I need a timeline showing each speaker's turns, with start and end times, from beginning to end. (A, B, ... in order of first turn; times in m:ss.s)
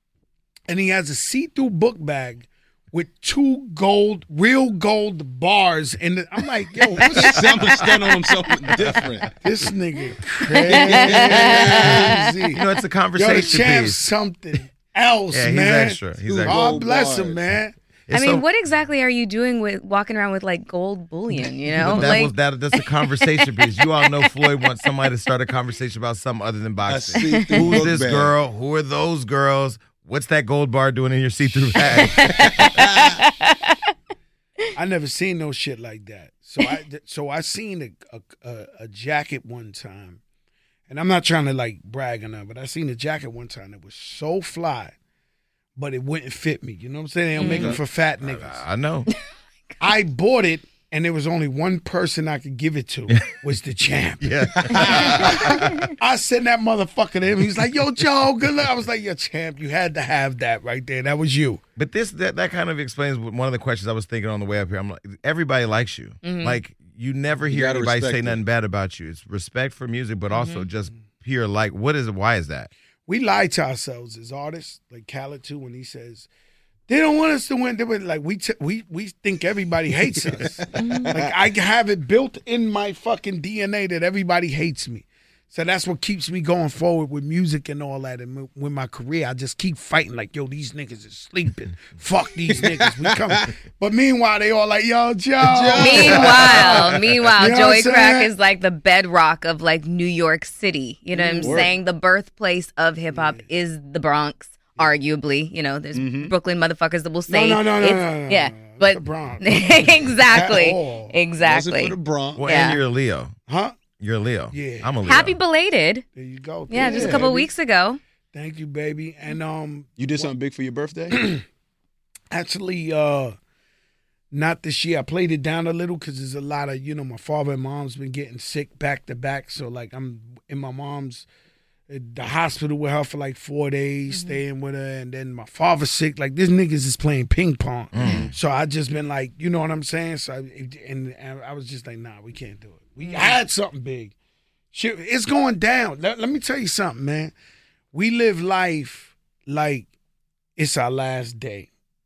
0:00.7-0:07.5 A
0:07.0-0:08.7 B
0:07.2-0:09.3 C
0:09.3-0:12.6 A
0:10.5-0:12.6 B
0:10.7-0:12.2 C
0:12.5-0:14.0 D
0:13.2-0:17.7 A
0:15.3-0:16.8 D
0:16.4-0:17.4 C
0:18.1-0:18.4 D
0:18.1-0:22.8 B
0:21.8-0:32.7 D
0:23.4-0:23.7 B
0:26.9-0:28.3 C
0:27.3-0:27.8 B
0:31.5-0:32.3 A
0:32.2-0:33.8 B
0:32.3-0:33.2 C
0:34.7-0:40.2 A
0:40.9-0:44.9 A
0:45.8-0:48.6 A
0:47.4-0:47.8 B
0:47.4-0:49.1 D
0:49.8-1:01.6 A
0:54.2-0:55.7 D
0:54.6-0:55.6 C
0:54.9-0:55.9 B
1:01.8-1:12.7 D
1:06.2-1:06.6 B
1:07.5-1:08.4 C
1:10.3-1:10.6 B
1:13.1-1:16.3 A
1:16.9-1:38.3 A
1:20.3-1:21.4 C
1:20.7-1:21.1 B
1:32.5-1:33.4 C
1:35.4-1:37.1 C
1:35.8-1:52.8 B
1:41.1-1:41.7 A
1:41.4-1:41.7 C
1:43.1-1:43.4 A
1:45.9-1:46.3 C
1:47.3-1:49.6 A
1:50.2-1:51.1 A
1:51.4-1:52.4 C
1:52.4-1:53.3 D
1:53.5-1:53.8 A
1:54.0-1:55.4 D
1:54.5-1:54.9 A
1:55.0-1:56.0 B
1:56.1-1:57.5 A
1:56.7-1:58.0 B
1:56.8-1:57.2 C
1:58.3-2:00.3 A
2:00.0-2:01.2 C
2:01.1-2:01.4 A
2:02.3-2:03.3 A
2:04.3-2:11.2 A
2:11.9-2:24.1 A
2:14.1-2:14.4 B
2:17.9-2:18.3 D
2:18.0-2:18.3 C
2:23.0-2:23.4 B
2:24.7-2:27.3 A
2:27.9-2:29.9 A
2:30.6-2:31.7 A